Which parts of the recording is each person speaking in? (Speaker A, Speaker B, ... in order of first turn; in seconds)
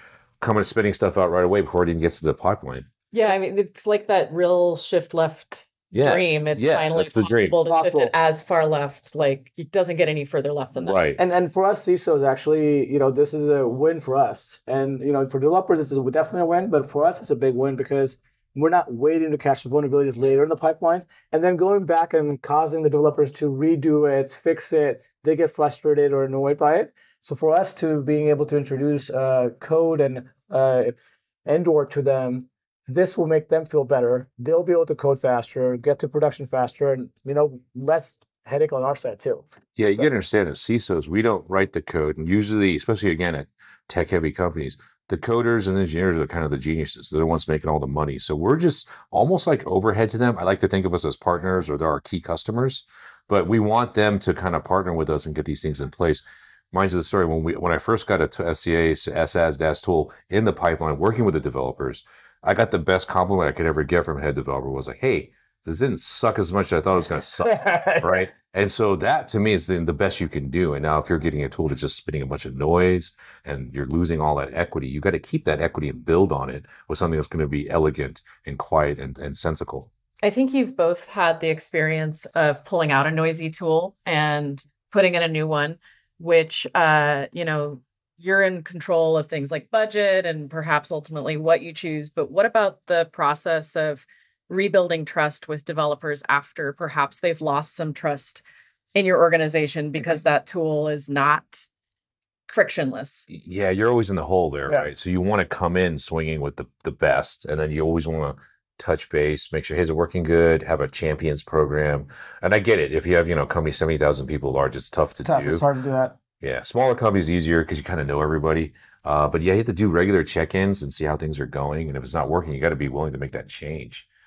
Speaker A: 0.4-2.9, 5.9-7.6, 10.8-11.2, 39.8-79.9, 103.3-115.7, 116.4-124.1
Speaker B: 3.1-11.0, 80.2-98.4, 98.9-101.7, 102.5-103.2
Speaker C: 7.7-8.1, 11.2-40.1, 67.4-68.2, 115.2-116.2